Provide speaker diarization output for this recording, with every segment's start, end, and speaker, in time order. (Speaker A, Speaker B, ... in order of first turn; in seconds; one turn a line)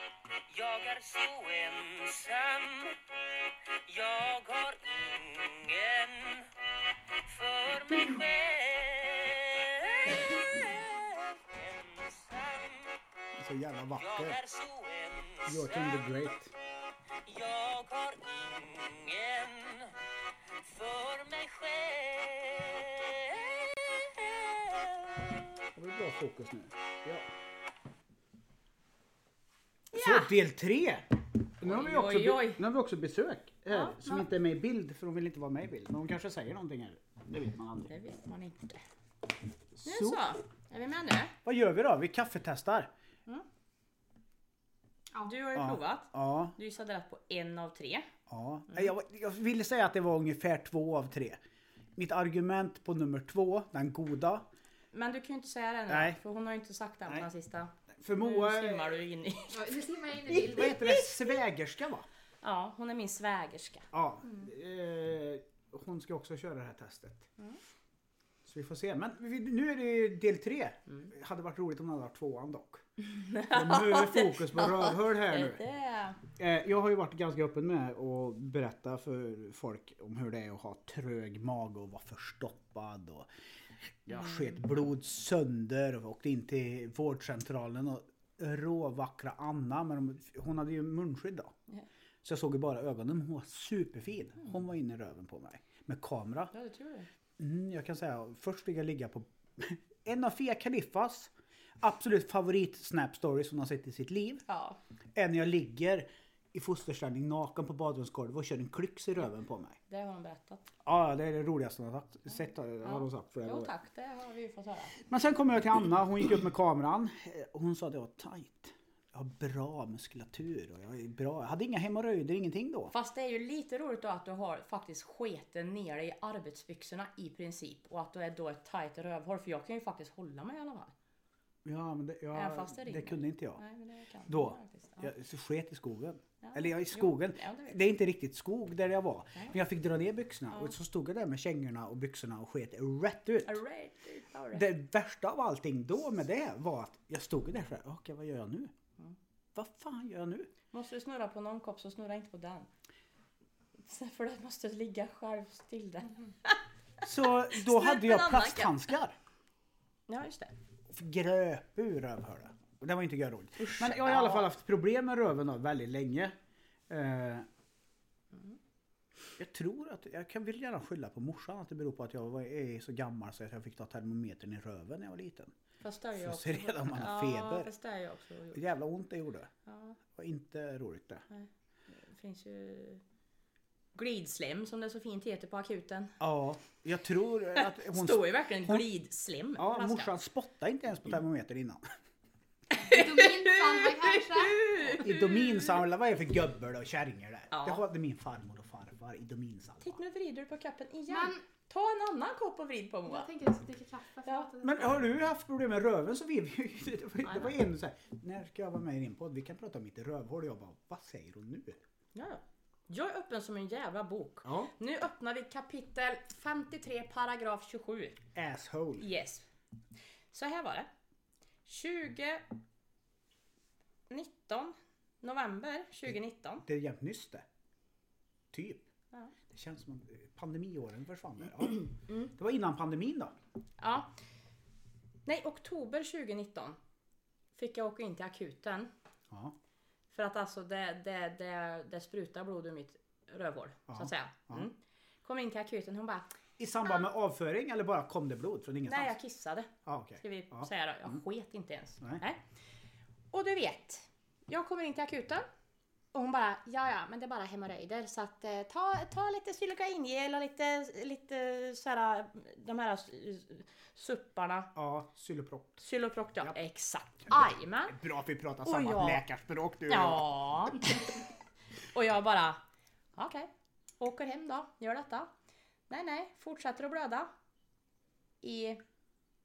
Speaker A: 0.5-6.5
Speaker A: 7.1-13.0
Speaker B: 13.4-14.4
Speaker A: 14.0-16.3
Speaker B: 15.5-16.5
Speaker A: 17.2-19.9
Speaker A: 20.5-25.6
Speaker B: 25.8-27.3
Speaker C: 29.9-30.3
Speaker B: 29.9-37.9
Speaker C: 31.6-32.6
Speaker C: 33.7-34.3
Speaker C: 37.9-38.8
Speaker B: 39.8-40.2
Speaker C: 39.8-41.4
Speaker B: 41.5-42.9
Speaker C: 45.2-48.1
Speaker B: 45.5-46.6
Speaker B: 48.3-51.4
Speaker B: 52.0-54.5
Speaker C: 54.9-59.8
Speaker B: 55.9-56.2
Speaker B: 57.9-59.0
Speaker D: 59.5-61.1
Speaker B: 60.3-62.1
Speaker C: 62.4-63.9
Speaker B: 63.9-67.3
Speaker B: 68.5-72.8
Speaker C: 73.1-76.2
Speaker B: 73.4-75.6
Speaker B: 76.3-83.3
Speaker B: 84.0-91.5
Speaker B: 92.2-96.5
Speaker C: 96.5-97.1
Speaker B: 97.4-104.4
Speaker C: 104.5-104.8
Speaker B: 105.2-109.8
Speaker C: 109.9-110.7
Speaker B: 110.8-113.7
Speaker C: 112.8-115.0
Speaker B: 115.0-122.9
Speaker C: 122.9-130.9
Speaker B: 131.6-133.6
Speaker C: 132.3-135.1
Speaker B: 134.3-143.6
Speaker C: 136.4-137.8
Speaker C: 143.4-144.7
Speaker B: 144.5-148.7
Speaker B: 149.6-150.5
Speaker C: 150.7-152.7
Speaker C: 153.8-158.9
Speaker B: 157.0-159.2
Speaker C: 160.1-160.5
Speaker B: 160.9-166.3
Speaker C: 163.6-164.5
Speaker B: 166.9-167.5
Speaker B: 169.4-175.6
Speaker C: 175.8-178.6
Speaker B: 176.2-177.7
Speaker B: 178.5-179.5
Speaker C: 179.7-180.0
Speaker B: 180.1-181.2
Speaker C: 181.3-183.0
Speaker C: 183.9-186.2
Speaker B: 186.2-188.9
Speaker C: 187.6-190.1
Speaker B: 189.6-191.9
Speaker C: 192.7-195.7
Speaker D: 192.8-195.0
Speaker B: 195.0-200.0
Speaker C: 197.5-197.8
Speaker C: 199.8-203.3
Speaker D: 201.1-201.4
Speaker D: 203.1-205.1
Speaker B: 204.6-211.8
Speaker C: 212.2-218.2
Speaker B: 214.4-214.7
Speaker B: 218.3-219.1
Speaker C: 219.0-219.5
Speaker C: 220.3-220.9
Speaker C: 221.7-222.4
Speaker C: 224.1-226.7
Speaker B: 226.7-227.4
Speaker B: 228.5-228.8
Speaker B: 229.5-233.3
Speaker C: 233.8-234.1
Speaker C: 235.3-236.8
Speaker C: 237.6-238.9
Speaker C: 240.1-246.3
Speaker B: 243.9-244.7
Speaker B: 246.6-249.1
Speaker C: 248.9-252.4
Speaker B: 249.9-251.2
Speaker C: 253.3-255.5
Speaker C: 256.1-264.7
Speaker B: 264.8-265.8
Speaker C: 265.8-268.0
Speaker B: 267.3-270.4
Speaker C: 268.6-269.3
Speaker C: 269.9-271.1
Speaker C: 271.8-272.6
Speaker C: 273.2-275.3
Speaker C: 275.9-277.3
Speaker C: 278.4-278.8